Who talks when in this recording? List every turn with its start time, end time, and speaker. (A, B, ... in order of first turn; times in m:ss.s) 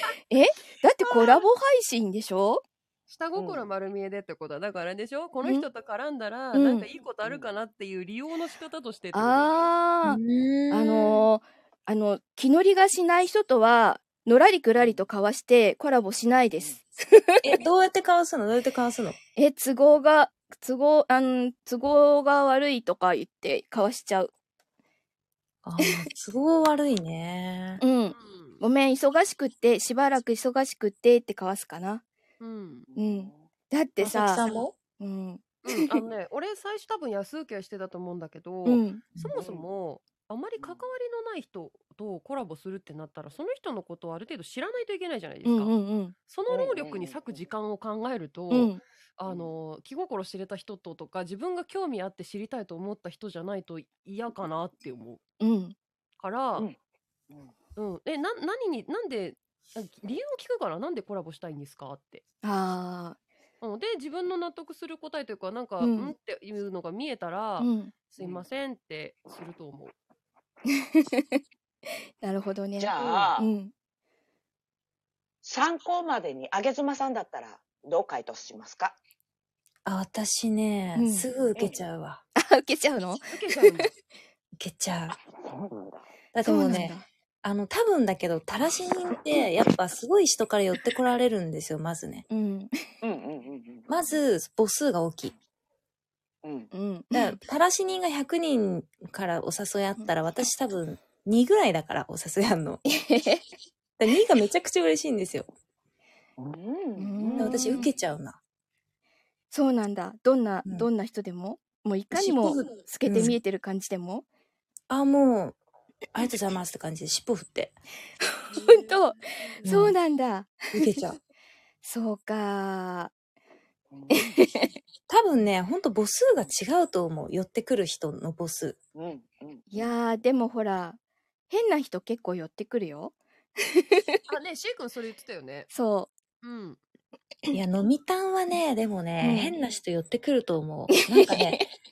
0:00.3-0:02.6 A
0:01.0-0:01.4 B
0:03.1-0:09.7 B
0:03.4-0:03.6 C
0:06.5-0:06.9 A
0:09.1-0:10.2 A
0:10.1-0:11.2 D
0:10.7-0:17.4 A
0:17.4-0:19.2 D
0:19.4-0:24.3 A
0:25.6-0:27.8 D
0:27.8-0:32.0 A
0:28.1-0:28.6 B
0:32.4-0:32.9 B
0:32.9-0:33.4 C
0:33.0-0:34.4 A
0:34.0-0:34.8 D
0:35.0-0:35.9 A
0:35.6-0:45.7 B
0:38.7-0:39.0 A
0:39.4-0:39.7 C
0:45.4-0:46.1 A
0:46.3-0:55.2 B
0:46.5-0:47.4 C
0:48.5-0:48.8 A
0:49.3-0:49.5 C
0:55.4-0:55.8 A
0:56.2-0:56.7 B
0:57.8-1:02.2 B
1:02.4-1:03.2 A
1:03.6-1:09.9 B
1:05.8-1:06.1 A
1:07.6-1:07.9 A
1:08.2-1:08.4 C
1:10.8-1:11.4 A
1:12.2-1:13.7 A
1:12.8-1:13.5 C
1:13.0-1:13.4 B
1:15.4-1:19.0 C
1:19.8-1:22.2 D
1:21.0-1:21.3 A
1:22.4-1:23.9 A
1:23.3-1:23.9 B
1:24.6-1:25.2 D
1:25.4-1:26.0 C
1:26.3-1:32.2 D
1:26.4-1:27.1 A
1:32.3-1:32.8 A
1:33.0-1:33.9 C
1:33.9-1:35.3 D
1:36.4-1:36.7 C
1:36.7-1:37.4 A
1:37.1-1:42.8 D
1:42.9-1:43.4 A
1:44.0-1:45.5 D
1:46.4-1:47.8 C
1:47.0-1:47.9 A
1:47.4-1:48.4 D
1:49.5-1:54.2 A
1:52.1-1:53.4 D
1:54.9-1:55.6 D
1:56.1-1:57.7 D
1:58.4-2:00.9 A
1:58.6-1:58.9 B
1:59.6-2:00.0 D
2:00.7-2:01.2 D
2:01.8-2:03.1 A
2:03.9-2:04.4 C
2:04.1-2:04.7 A
2:05.1-2:08.8 D
2:09.0-2:09.9 C
2:09.7-2:11.0 A
2:11.5-2:13.2 A
2:13.7-2:14.0 A
2:14.3-2:15.7 B
2:15.7-2:16.1 A
2:16.4-2:16.8 B
2:17.5-2:21.6 D
2:19.2-2:19.6 A
2:20.9-2:21.7 A